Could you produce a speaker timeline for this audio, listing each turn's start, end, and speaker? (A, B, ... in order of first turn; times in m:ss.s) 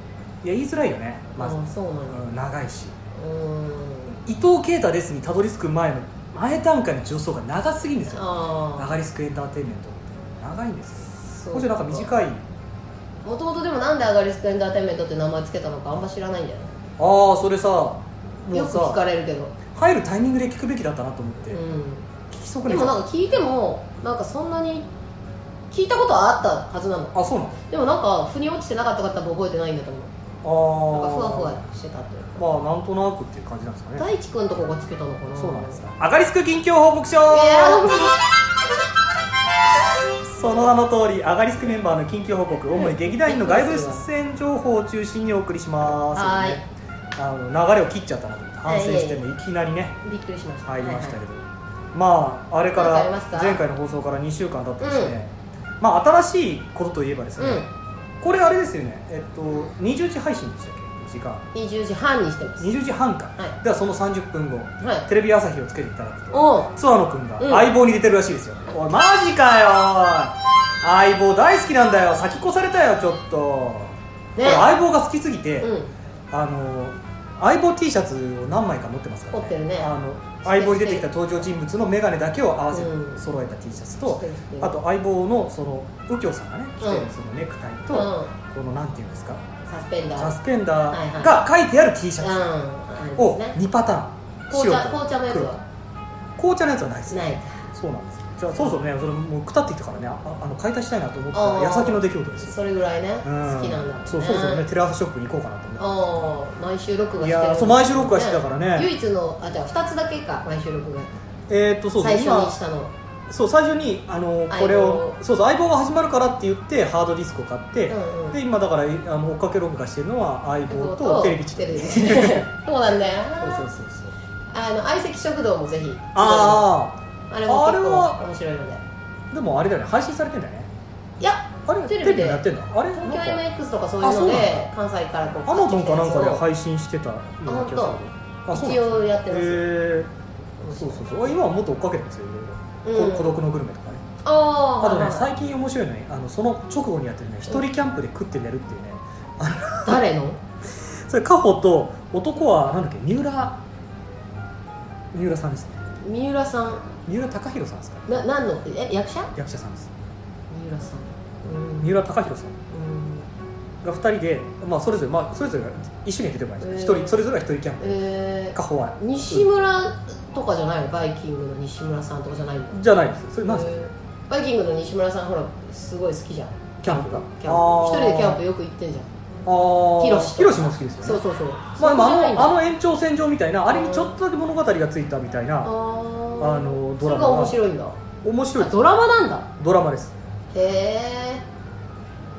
0:00.4-0:03.0 A
0:01.4-0:02.2 B
0:03.1-0:04.2 B
0:04.2-0:12.4 A
0:08.1-0:08.9 B
0:11.1-0:12.1 B
0:13.2-0:16.8 B
0:17.0-0:19.0 A
0:18.5-0:19.5 B
0:19.7-0:21.6 A
0:21.5-0:22.1 B
0:22.3-0:23.0 A
0:22.7-0:24.9 B
0:25.7-0:27.1 B
0:27.1-0:27.6 A
0:27.7-0:30.1 B
0:30.4-0:31.6 A
0:30.9-0:32.5 B
0:32.4-0:34.1 A
0:34.0-0:35.8 B
0:35.4-0:38.1 A
0:37.3-0:38.2 B
0:40.2-0:46.6 A
0:42.7-0:44.0 B
0:46.0-0:46.6 B
0:47.2-0:50.0 A
0:48.6-0:49.3 B
0:50.0-0:51.2 B
0:50.6-0:57.6 A
0:52.7-0:53.6 B
0:54.8-0:55.1 B
0:57.4-0:57.7 B
0:58.2-1:01.4 A
1:01.5-1:02.7 B
1:02.6-1:15.7 A
1:04.8-1:05.0 B
1:06.3-1:06.7 B
1:07.4-1:07.7 B
1:14.4-1:14.7 B
1:15.6-1:15.9 B
1:16.3-1:29.4 A
1:19.3-1:21.1 B
1:22.7-1:23.2 B
1:24.1-1:24.7 B
1:26.8-1:27.1 B
1:27.9-1:28.3 B
1:29.6-1:30.4 B
1:30.2-1:32.5 A
1:30.9-1:31.4 B
1:32.2-1:33.6 B
1:33.2-1:35.6 A
1:34.5-1:35.6 B
1:36.4-1:42.6 A
1:37.1-1:37.7 B
1:41.3-1:44.6 B
1:43.2-1:46.3 A
1:45.8-1:51.1 B
1:47.2-1:48.9 A
1:51.5-1:52.6 A
1:52.0-1:52.9 B
1:53.3-2:02.5 A
1:54.5-1:55.2 B
1:57.9-1:58.4 B
2:00.7-2:03.7 B
2:03.4-2:04.1 A
2:04.5-2:06.7 B
2:06.1-2:08.2 A
2:07.3-2:08.8 B
2:09.3-2:10.7 A
2:11.2-2:16.4 B
2:11.6-2:13.4 A
2:14.0-2:14.7 A
2:15.4-2:20.1 A
2:17.4-2:18.0 B
2:18.5-2:19.7 B
2:20.6-2:21.3 B
2:20.7-2:24.0 A
2:22.8-2:23.4 B
2:24.2-2:25.3 B
2:24.8-2:30.0 A
2:29.8-2:30.4 B
2:30.7-2:33.6 A
2:35.1-2:35.9 A
2:36.0-2:36.9 B
2:37.0-2:38.2 A
2:38.1-2:39.3 B
2:39.3-2:39.9 A
2:40.5-2:42.0 B
2:41.8-2:42.6 A
2:42.7-2:43.3 B
2:43.8-2:48.0 A
2:46.6-2:47.2 B
2:47.8-2:52.8 B
2:48.5-2:49.5 A
2:52.7-2:53.8 A
2:53.4-2:59.1 B
2:56.8-2:58.4 A
2:59.4-3:01.2 A
3:00.0-3:02.5 B
3:01.8-3:05.7 A
3:03.7-3:04.1 B
3:05.6-3:08.0 B
3:06.4-3:07.6 A
3:08.2-3:09.0 A
3:08.6-3:09.5 B
3:09.6-3:10.2 A
3:10.5-3:11.4 B